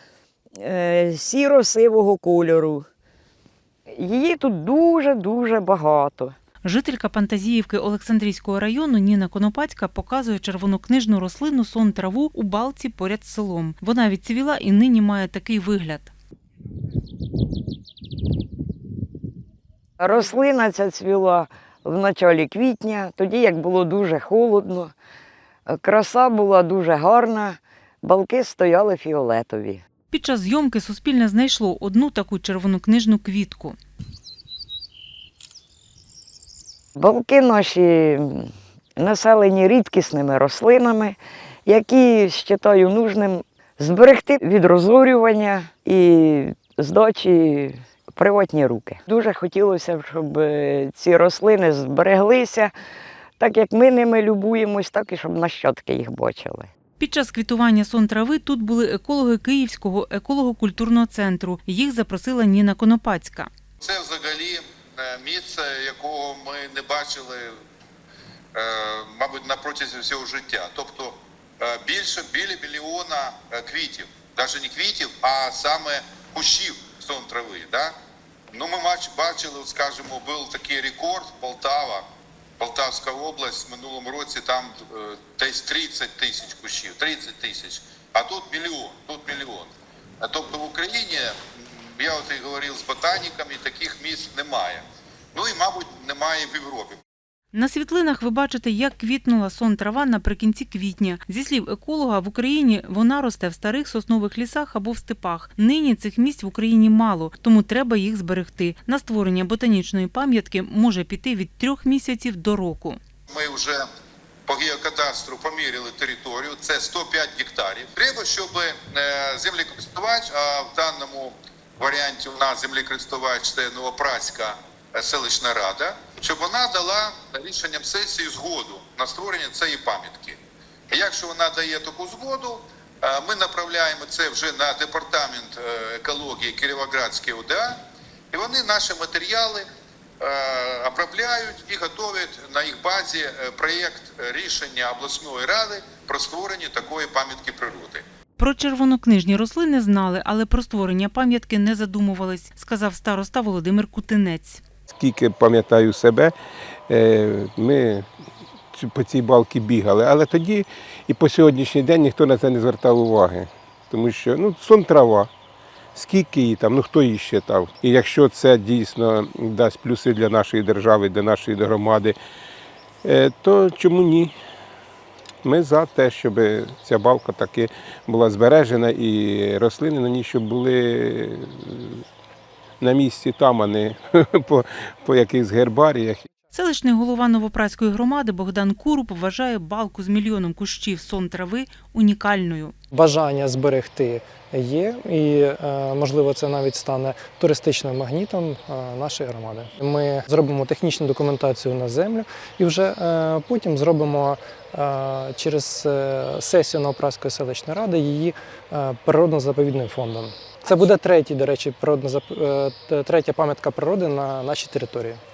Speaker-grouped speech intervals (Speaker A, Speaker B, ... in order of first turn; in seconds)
Speaker A: 0.6-2.9, 3.9-6.4, 20.0-24.9, 25.7-29.8, 37.0-52.7, 53.4-56.7
Speaker B: 6.6-16.1, 30.1-33.8, 57.0-63.5, 97.5-113.0, 148.4-154.6, 186.5-192.8
Speaker C: 63.8-67.6, 68.5-77.9, 78.5-82.1, 82.6-97.0, 113.3-113.8, 114.5-130.4, 130.9-137.8, 138.3-139.7, 140.2-148.0
Speaker D: 154.9-156.3, 156.9-158.1, 158.7-165.3, 165.9-172.2, 173.0-174.4, 175.4-182.1, 182.8-186.2
Speaker E: 192.9-215.2